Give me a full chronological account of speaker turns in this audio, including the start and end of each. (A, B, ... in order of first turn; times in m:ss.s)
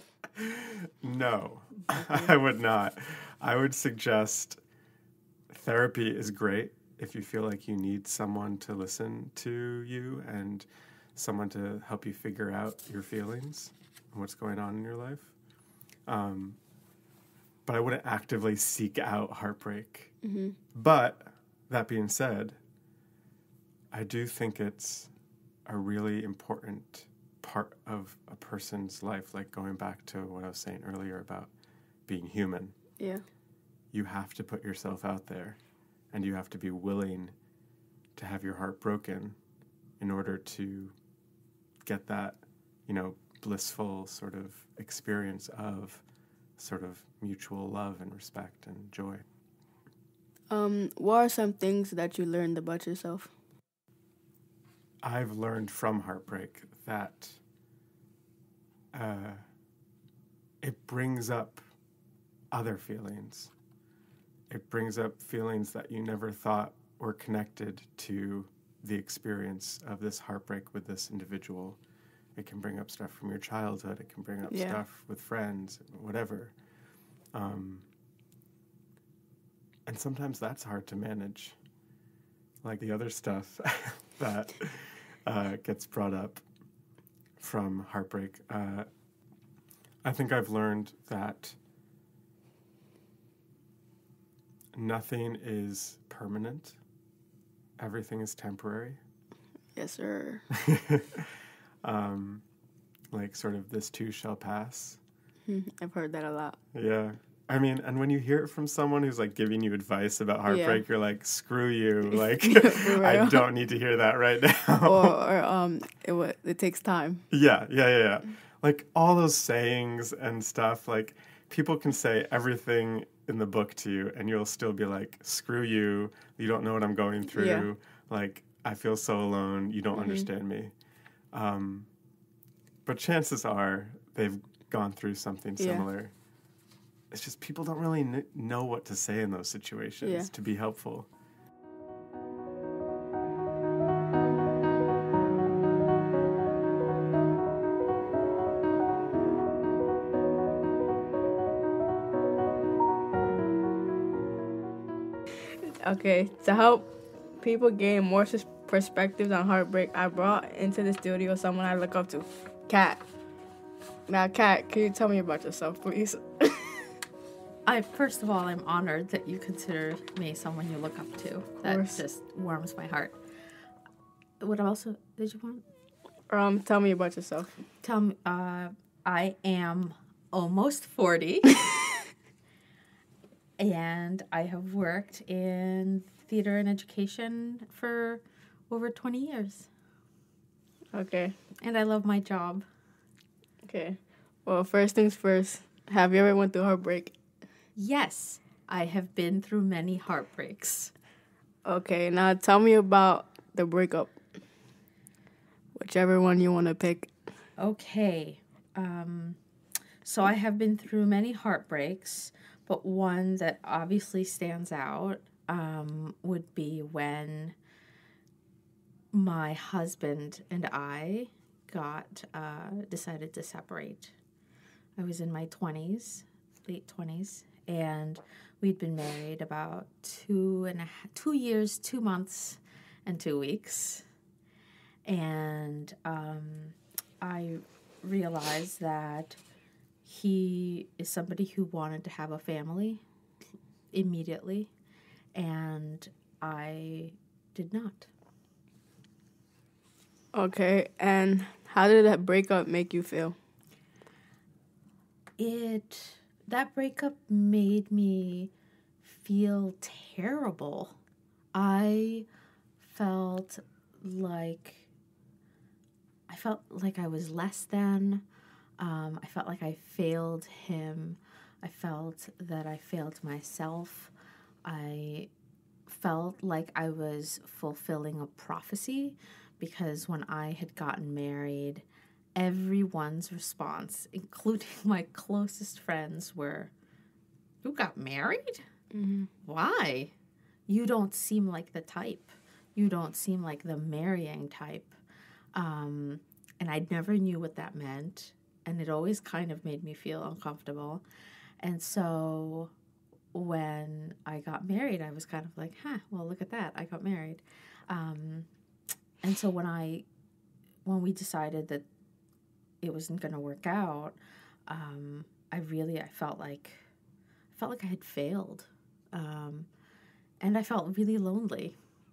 0:00.4-0:04.6 A
0:01.9-0:02.3 B
0:05.5-0:15.3 A
0:16.1-0:16.6 A
0:17.6-0:20.2 A
0:20.2-0:20.5 B
0:20.8-0:22.6 A
0:23.9-0:25.1 A
0:25.6-0:31.5 A
0:32.1-0:32.8 A
0:33.9-0:35.6 A
0:36.1-0:37.3 A
0:38.2-0:39.4 A
0:40.0-0:40.9 A
0:41.8-0:46.0 A
0:46.6-0:49.2 A
0:50.5-0:53.3 B
0:55.0-0:57.4 A
0:58.9-0:59.4 A
1:00.6-1:01.6 A
1:02.5-1:03.5 A
1:04.5-1:11.8 A
1:12.4-1:16.5 A
1:14.5-1:14.8 B
1:17.3-1:17.8 A
1:19.8-1:21.6 A
1:22.6-1:26.4 A
1:27.4-1:28.9 A
1:30.0-1:31.6 A
1:34.7-1:36.8 A
1:37.8-1:39.0 A
1:39.8-1:40.4 B
1:40.5-1:41.2 A
1:41.8-1:42.4 A
1:43.1-1:45.0 A
1:45.5-1:46.6 B
1:46.7-1:55.2 A
1:50.5-1:50.8 B
1:52.1-1:53.4 B
1:54.8-1:57.2 B
1:57.3-2:10.7 A
2:07.3-2:07.7 B
2:09.9-2:10.3 B
2:11.3-2:11.9 A
2:12.8-2:16.1 A
2:15.6-2:15.9 B
2:17.1-2:21.1 A
2:20.0-2:20.3 B
2:35.8-2:43.0 B
2:44.1-2:46.8 B
2:47.6-2:53.2 C
2:51.6-2:52.0 B
2:54.4-2:55.6 C
2:56.3-2:57.5 B
2:57.8-3:01.6 C
3:03.6-3:09.7 C
3:10.9-3:11.4 B
3:11.6-3:12.6 C
3:13.6-3:17.1 B
3:17.8-3:20.9 C
3:21.6-3:24.2 B
3:25.8-3:27.1 B
3:27.6-3:29.4 C
3:30.0-3:37.6 C
3:39.1-3:44.1 C
3:45.0-3:54.0 C
3:55.0-3:59.4 C
4:00.0-4:03.0 C
4:03.9-4:04.7 C
4:05.4-4:08.1 C
4:10.3-4:13.4 B
4:15.4-4:18.5 C
4:19.0-4:21.0 C
4:21.5-4:22.2 C
4:22.8-4:24.9 C
4:26.3-4:28.2 C
4:28.8-4:34.1 C
4:34.6-4:35.3 C
4:35.9-4:41.8 C
4:42.4-4:46.7 C
4:47.6-4:48.6 C
4:48.9-4:49.3 B
4:49.4-4:50.1 C
4:50.7-4:55.0 C
4:55.5-5:01.0 C
5:01.6-5:02.7 C
5:03.3-5:08.5 C
5:09.2-5:10.0 C
5:10.8-5:11.8 C
5:12.8-5:16.8 C
5:17.5-5:19.7 C
5:20.4-5:21.8 C